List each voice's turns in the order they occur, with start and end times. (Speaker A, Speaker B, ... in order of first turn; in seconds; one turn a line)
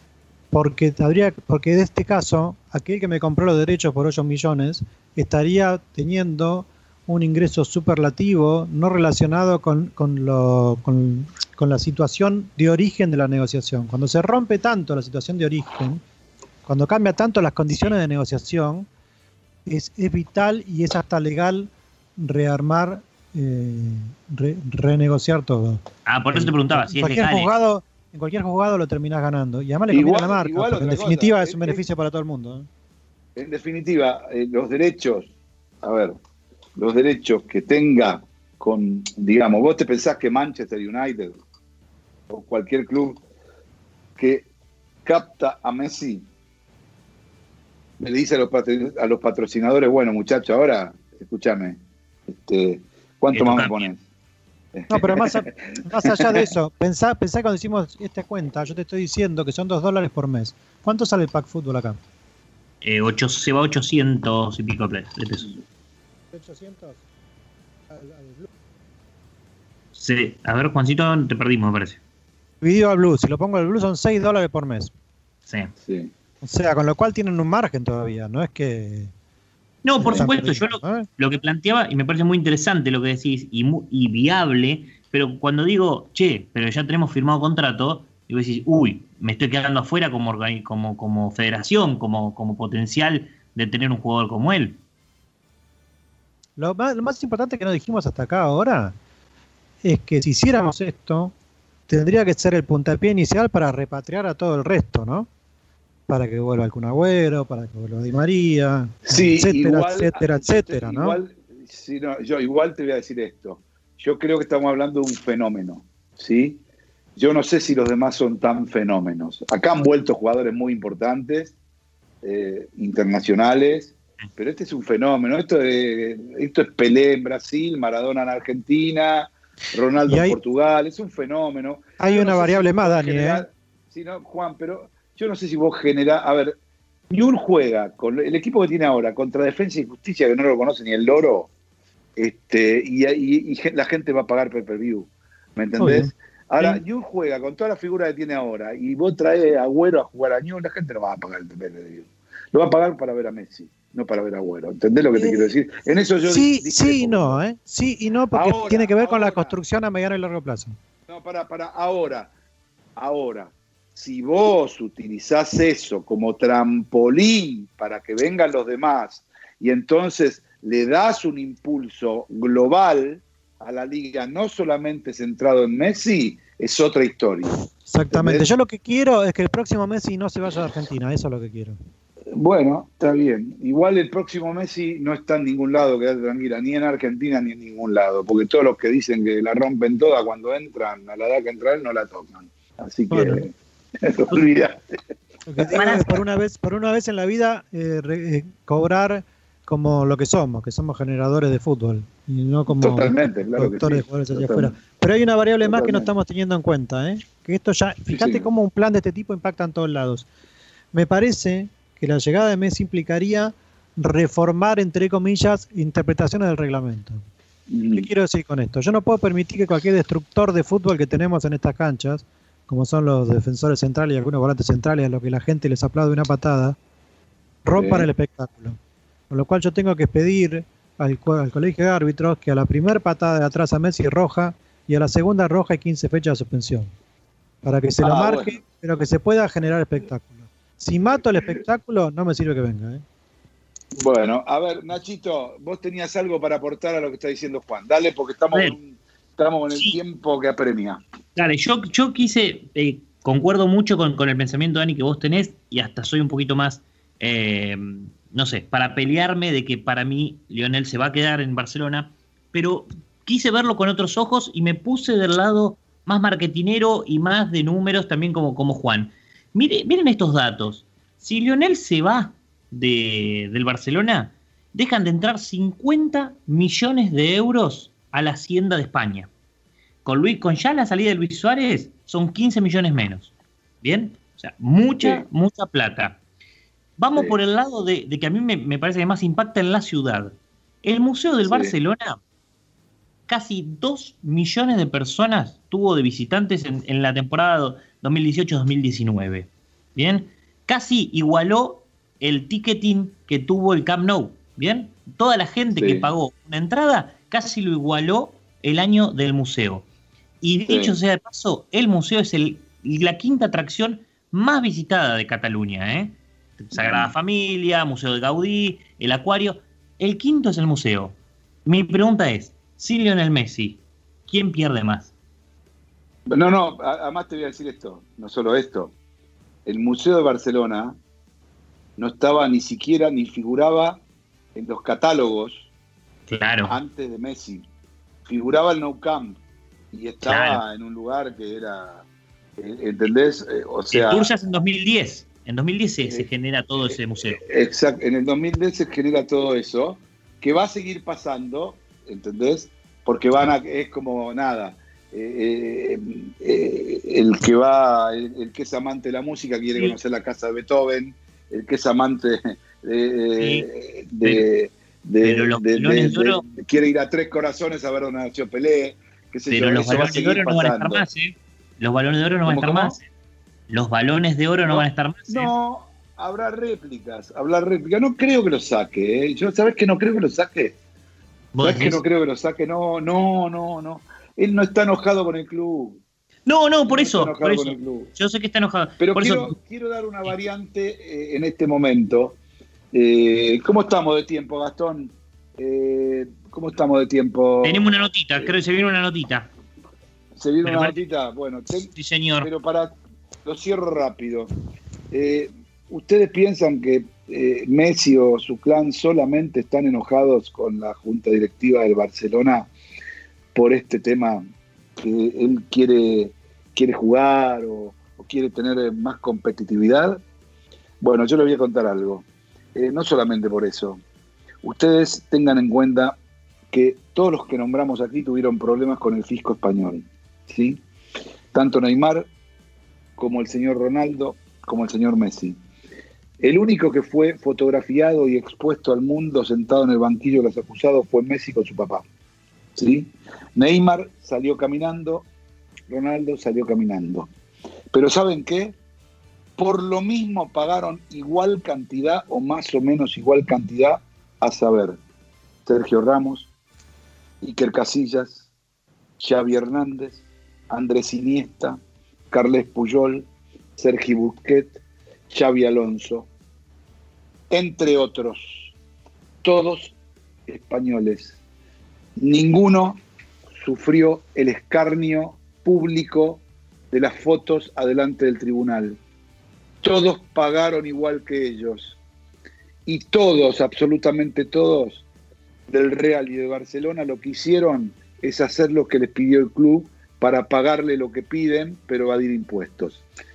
Speaker A: 0.5-16.0
Speaker A: 16.6-18.9
Speaker B: 17.7-17.9
Speaker A: 19.6-32.7
Speaker B: 26.1-27.5
Speaker C: 29.9-31.8
Speaker C: 33.4-35.3
Speaker C: 35.8-36.2
Speaker C: 36.8-41.4
Speaker C: 42.3-43.2
Speaker C: 44.2-44.5
Speaker C: 45.0-46.2
Speaker C: 48.0-54.0
Speaker B: 53.3-53.9
Speaker C: 54.8-56.5
Speaker A: 54.9-62.0
Speaker B: 62.8-65.5
Speaker A: 66.3-67.0
Speaker A: 67.9-68.5
Speaker B: 69.9-72.0
Speaker A: 72.6-74.9
Speaker B: 75.5-75.7
Speaker C: 75.8-76.1
Speaker A: 76.4-79.1
Speaker B: 79.8-94.8
Speaker A: 80.0-81.1
Speaker A: 96.6-99.0
Speaker A: 99.8-101.3
Speaker A: 101.9-105.3
Speaker A: 106.1-111.2
Speaker C: 109.1-116.6
Speaker C: 117.2-121.5
Speaker C: 122.2-136.5
Speaker A: 130.1-130.4
Speaker A: 132.0-133.5
Speaker C: 137.1-141.5
Speaker C: 142.2-157.4
Speaker A: 145.8-146.8
Speaker A: 156.2-160.7
Speaker C: 158.3-159.5
Speaker C: 161.1-162.3
Speaker C: 163.0-177.5
Speaker A: 177.8-181.8
Speaker C: 178.1-178.5
Speaker C: 182.3-193.5
Speaker A: 193.1-193.4
Speaker C: 194.0-194.8
Speaker A: 195.4-210.3
Speaker B: 195.7-196.2
Speaker C: 202.7-204.7
Speaker C: 205.6-206.1
Speaker C: 208.1-208.5
Speaker A: 210.9-217.2
Speaker C: 217.7-218.1
Speaker A: 217.9-226.7
Speaker A: 227.6-228.8
Speaker C: 227.8-228.1
Speaker A: 229.3-236.9
Speaker A: 237.6-243.0
Speaker C: 238.0-238.6
Speaker C: 244.0-251.0
Speaker B: 249.7-250.0
Speaker B: 251.3-279.3
Speaker B: 280.0-286.2
Speaker C: 285.0-285.2
Speaker B: 287.0-292.2
Speaker C: 291.4-291.8
Speaker B: 293.3-309.9
Speaker C: 305.7-306.1
Speaker B: 310.4-325.1
Speaker C: 310.7-311.0
Speaker C: 316.7-317.1
Speaker C: 326.3-328.9
Speaker C: 329.6-330.9
Speaker C: 332.0-334.0
Speaker C: 334.5-335.7
Speaker B: 336.3-336.8
Speaker C: 336.6-337.6
Speaker C: 338.2-339.4
Speaker C: 339.9-342.1
Speaker B: 340.2-340.6
Speaker C: 342.6-344.3
Speaker B: 343.9-347.4
Speaker C: 346.9-371.0
Speaker B: 363.4-363.7
Speaker B: 365.2-366.4
Speaker B: 369.5-373.1
Speaker C: 372.4-372.9
Speaker B: 373.7-375.5
Speaker C: 374.6-380.7
Speaker B: 381.5-382.0
Speaker C: 381.6-386.0
Speaker B: 386.4-389.5
Speaker C: 386.9-388.1
Speaker C: 389.0-392.4
Speaker C: 392.9-397.9
Speaker B: 397.6-399.5
Speaker C: 400.4-401.9
Speaker B: 400.6-401.0
Speaker B: 401.8-402.5
Speaker C: 402.4-402.9
Speaker C: 403.4-404.5
Speaker C: 405.1-412.7
Speaker C: 413.5-414.4
Speaker C: 415.0-420.2
Speaker C: 421.0-424.0
Speaker C: 424.6-426.1
Speaker C: 426.7-430.8
Speaker C: 431.5-432.3
Speaker C: 433.2-435.6
Speaker C: 436.4-442.1
Speaker C: 442.8-445.3
Speaker C: 445.9-447.3
Speaker C: 447.9-448.8
Speaker C: 449.6-455.0
Speaker C: 455.6-456.5
Speaker C: 457.4-458.4
Speaker C: 459.2-461.8
Speaker C: 462.3-464.8
Speaker C: 465.3-466.3
Speaker C: 467.5-468.7
Speaker C: 469.4-469.9
Speaker C: 470.5-471.4
Speaker C: 472.2-473.0
Speaker C: 473.6-479.0
Speaker C: 479.8-481.9
Speaker C: 482.9-485.0
Speaker C: 485.7-493.0